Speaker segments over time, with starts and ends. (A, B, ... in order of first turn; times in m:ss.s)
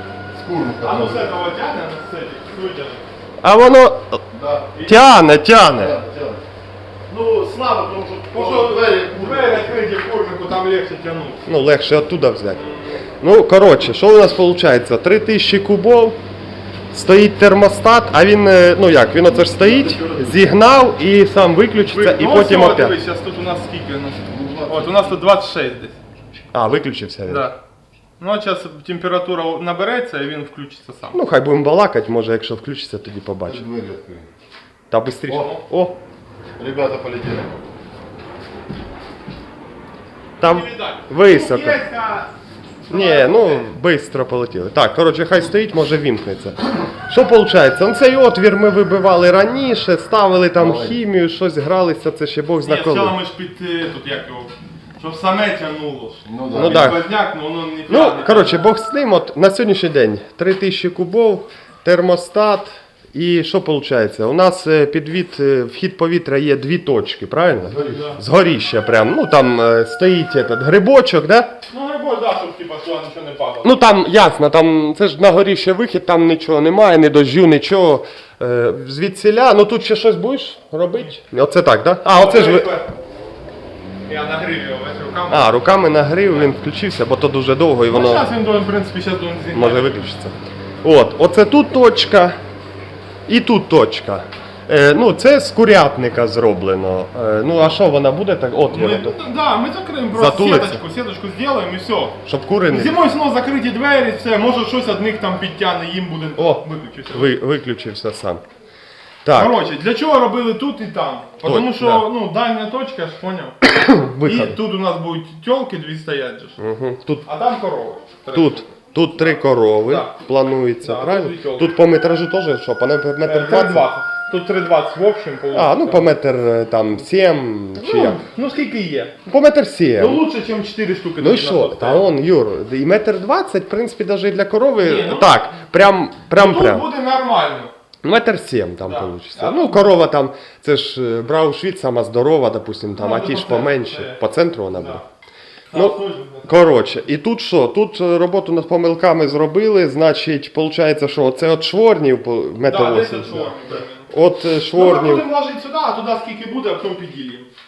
0:00.3-0:01.4 A
0:00.8-0:03.0 B
0:03.4-0:04.2 C
0:04.3-0:04.7 A
0:04.7-0:05.3 B
0:04.8-0:06.0 C
0:05.7-0:06.4 A
0:07.1-0:09.8 A
0:07.9-0:11.4 B
0:11.4-0:16.2 C
0:12.5-0:13.0 B
0:16.9-0:23.0 C
0:19.2-0:20.5 A
0:21.8-0:26.0 B
0:24.3-0:25.2 A
0:26.5-0:27.5 C
0:27.3-0:27.6 B
0:28.2-0:31.2 B
0:31.1-0:33.6 C
0:33.4-0:34.3 A
0:34.9-0:36.0 C
0:36.6-0:37.7 A
0:40.4-0:41.8 C
0:40.4-0:42.3 B
0:42.9-0:43.7 B
0:42.9-0:53.2 C
0:50.6-0:51.0 A
0:52.6-0:58.7 B
0:56.2-0:56.9 A
0:56.6-0:57.0 C
0:57.9-1:11.5 C
1:07.6-1:08.2 A
1:07.9-1:08.2 B
1:11.6-1:13.8 B
1:13.6-1:22.7 C
1:22.1-1:22.9 B
1:24.1-1:25.6 B
1:25.3-1:28.3 C
1:27.9-1:30.0 B
1:29.5-1:32.4 C
1:33.3-1:39.2 C
1:38.7-1:47.3 B
1:40.1-1:40.8 C
1:42.2-1:43.0 C
1:46.4-1:48.4 C
1:49.2-1:49.6 C
1:49.3-1:53.6 B
1:51.4-1:52.1 C
1:53.7-1:54.6 C
1:54.2-1:56.6 B
1:56.6-1:57.3 C
1:57.2-2:00.2 B
1:58.3-2:03.9 C
2:00.8-2:01.7 B
2:03.2-2:06.1 B
2:05.5-2:08.2 C
2:07.8-2:09.2 B
2:09.3-2:10.2 C
2:10.0-2:12.1 B
2:11.2-2:16.9 C
2:14.8-2:15.6 B
2:16.3-2:17.7 B
2:18.0-2:25.0 C
2:18.8-2:19.9 B
2:23.0-2:25.0 B
2:25.7-2:26.7 B
2:25.7-2:33.6 C
2:32.6-2:34.1 B
2:34.1-2:35.3 C
2:34.7-2:37.5 B